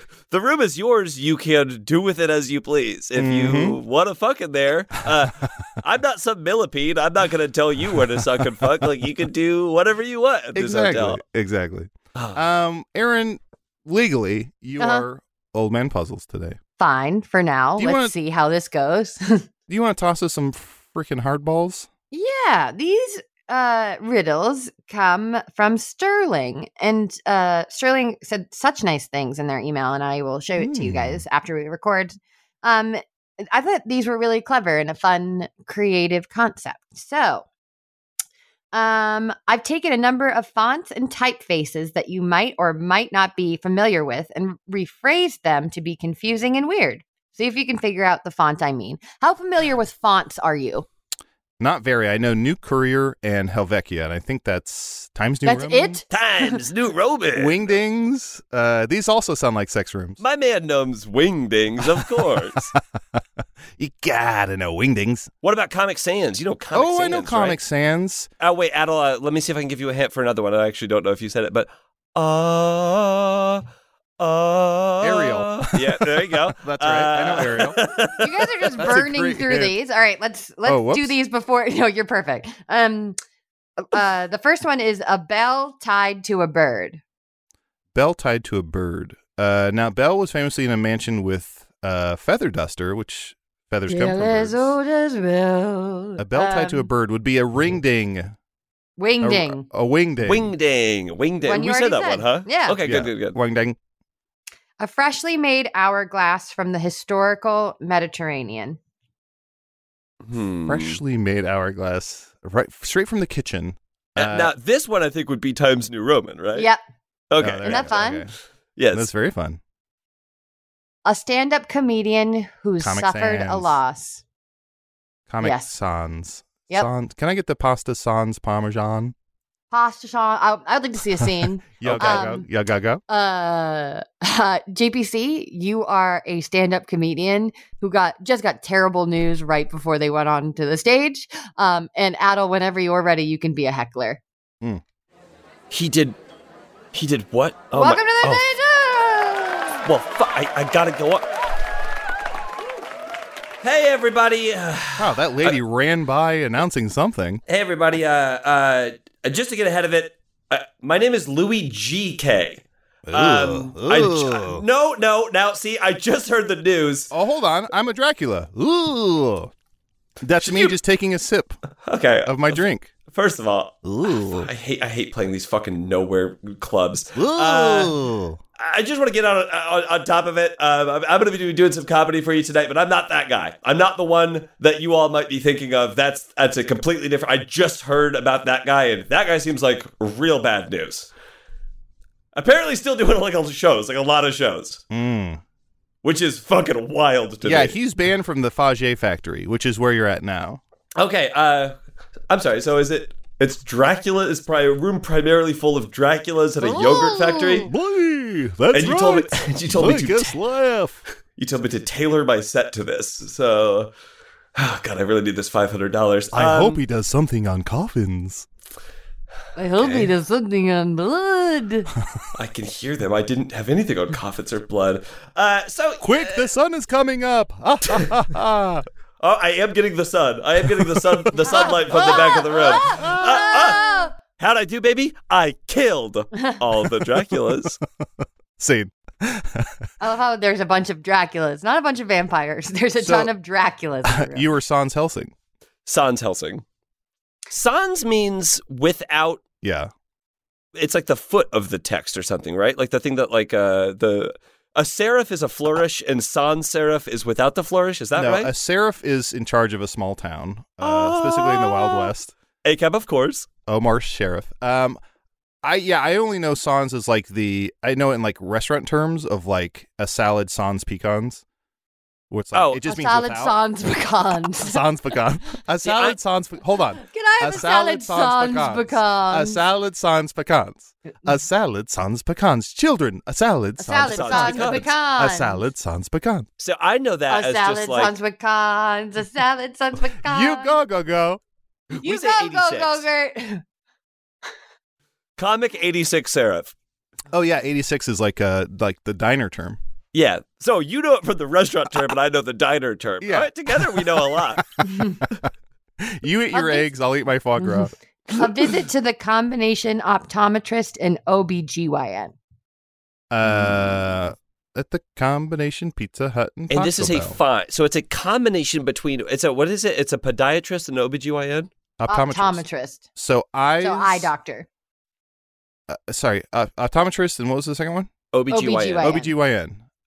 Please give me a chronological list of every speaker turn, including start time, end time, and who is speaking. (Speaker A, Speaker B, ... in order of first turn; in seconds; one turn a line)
Speaker A: 0.3-11.2
Speaker B: 3.2-3.8
Speaker B: 10.6-16.6
Speaker A: 12.2-12.4
Speaker C: 14.8-15.1
Speaker C: 16.8-19.4
Speaker B: 17.8-18.1
Speaker B: 19.7-21.9
Speaker C: 22.1-37.5
Speaker B: 30.6-31.2
Speaker C: 38.7-50.9
Speaker B: 51.6-56.0
Speaker C: 55.5-56.6
Speaker A: 56.1-57.6
Speaker B: 57.4-60.2
Speaker A: 60.2-62.7
Speaker B: 62.0-63.2
Speaker B: 63.8-65.3
Speaker A: 65.4-67.6
Speaker B: 66.7-68.3
Speaker A: 68.4-73.6
Speaker A: 74.2-78.9
Speaker B: 75.0-77.8
Speaker C: 78.2-83.2
Speaker B: 78.8-79.8
Speaker B: 80.7-81.2
Speaker C: 83.8-87.0
Speaker B: 87.9-94.7
Speaker C: 93.9-96.9
Speaker B: 96.2-98.4
Speaker C: 99.0-99.7
Speaker B: 99.2-100.5
Speaker A: 100.2-103.4
Speaker C: 101.4-102.8
Speaker B: 102.8-103.8
Speaker C: 104.8-108.8
Speaker A: 110.2-111.0
Speaker B: 110.7-114.5
Speaker A: 114.2-116.7
Speaker A: 117.3-118.0
Speaker B: 117.4-118.3
Speaker C: 117.6-118.3
Speaker A: 118.8-119.1
Speaker B: 118.9-119.6
Speaker C: 121.0-124.2
Speaker B: 122.8-123.8
Speaker B: 125.3-129.1
Speaker C: 125.4-125.7
Speaker C: 129.7-132.5
Speaker B: 131.8-133.0
Speaker A: 131.8-132.3
Speaker C: 133.1-144.2
Speaker A: 145.7-146.2
Speaker A: 146.9-148.4
Speaker C: 147.7-149.8
Speaker A: 149.8-151.3
Speaker A: 153.6-155.6
Speaker B: 155.0-157.4
Speaker A: 157.5-167.1
Speaker B: 163.1-164.6
Speaker B: 167.1-169.5
Speaker B: 170.2-171.6
Speaker A: 170.4-170.8
Speaker A: 171.9-177.9
Speaker B: 172.2-172.9
Speaker B: 173.8-174.5
Speaker B: 177.2-178.4
Speaker A: 178.6-191.1
Speaker A: 192.3-194.8
Speaker B: 194.9-195.4
Speaker A: 196.0-197.8
Speaker B: 197.4-200.6
Speaker A: 201.0-201.8
Speaker A: 202.3-207.7
Speaker C: 206.7-207.7
Speaker B: 207.6-211.0
Speaker A: 208.7-210.4
Speaker A: 211.4-213.9
Speaker A: 214.6-216.8
Speaker B: 216.3-218.5
Speaker C: 219.6-221.9
Speaker A: 219.8-220.1
Speaker A: 222.3-226.5
Speaker B: 226.0-228.9
Speaker A: 229.2-237.8
Speaker B: 230.8-233.8
Speaker C: 231.5-234.1
Speaker B: 238.6-239.8
Speaker C: 240.0-244.5
Speaker B: 243.0-243.3
Speaker B: 244.1-245.3
Speaker A: 245.9-246.6
Speaker A: 247.5-249.4
Speaker B: 249.6-249.9
Speaker A: 250.8-258.5
Speaker B: 258.1-262.3
Speaker A: 260.8-262.1
Speaker A: 262.6-263.5
Speaker B: 263.7-265.0
Speaker B: 265.6-271.4
Speaker B: 272.3-273.6
Speaker A: 272.5-272.8
Speaker C: 272.9-274.8
Speaker B: 274.6-286.5
Speaker A: 275.8-276.2
Speaker C: 277.1-279.6
Speaker C: 283.8-285.6
Speaker A: 284.1-284.9
Speaker A: 286.6-288.1
Speaker C: 287.3-290.8
Speaker B: 290.2-291.4
Speaker A: 291.9-293.1
Speaker C: 292.0-293.6
Speaker A: 295.4-296.7
Speaker B: 297.3-299.8
Speaker A: 300.1-304.6
Speaker B: 303.2-305.4
Speaker C: 304.8-305.2
Speaker B: 306.0-308.7
Speaker C: 306.5-306.9
Speaker C: 307.6-312.4
Speaker B: 313.3-317.4
Speaker A: 313.4-314.0
Speaker A: 316.7-321.7
Speaker B: 322.0-322.6
Speaker C: 322.1-323.0
Speaker B: 323.1-324.3
Speaker C: 323.8-324.7
Speaker B: 325.9-328.1
Speaker A: 328.3-329.1
Speaker C: 328.5-329.3
Speaker B: 329.0-329.8